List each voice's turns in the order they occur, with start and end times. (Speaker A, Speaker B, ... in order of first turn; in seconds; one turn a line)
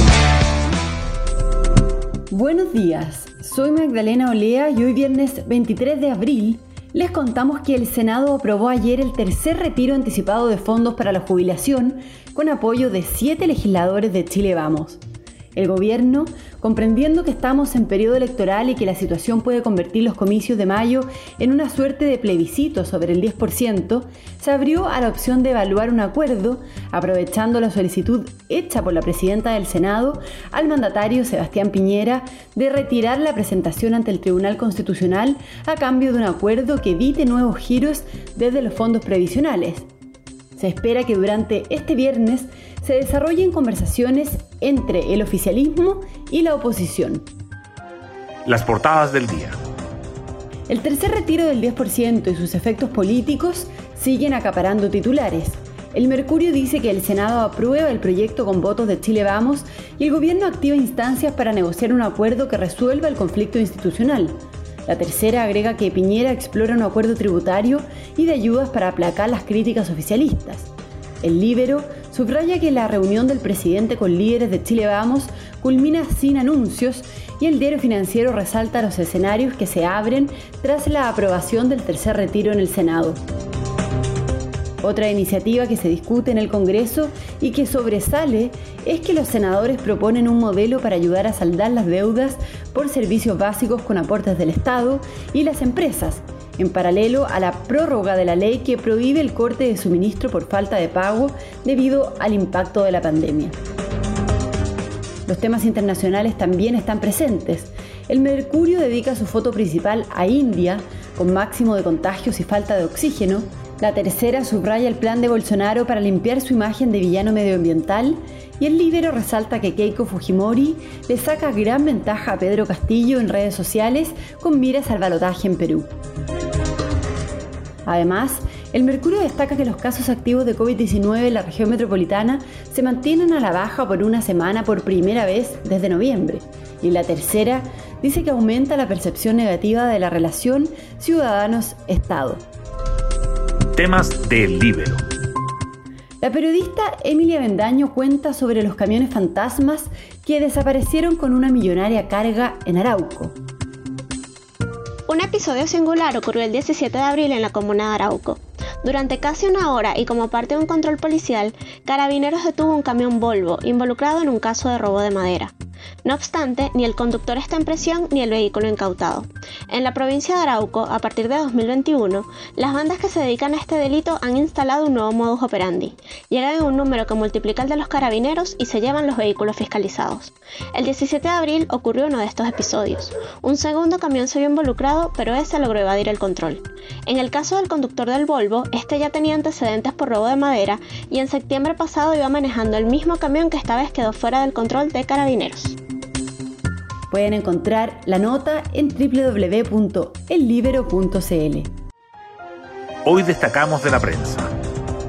Speaker A: 2.3-15.0
Speaker A: 15.6-39.9
Speaker A: 40.6-47.3
Speaker B: 48.5-49.6
Speaker A: 50.7-70.7
Speaker A: 71.2-83.2
Speaker A: 84.8-103.6
Speaker A: 105.3-125.9
Speaker A: 127.9-142.4
Speaker B: 143.8-145.0
Speaker A: 146.2-153.3
Speaker C: 155.1-165.5
Speaker C: 166.1-195.8
Speaker A: 197.1-201.7
Speaker B: 203.1-204.5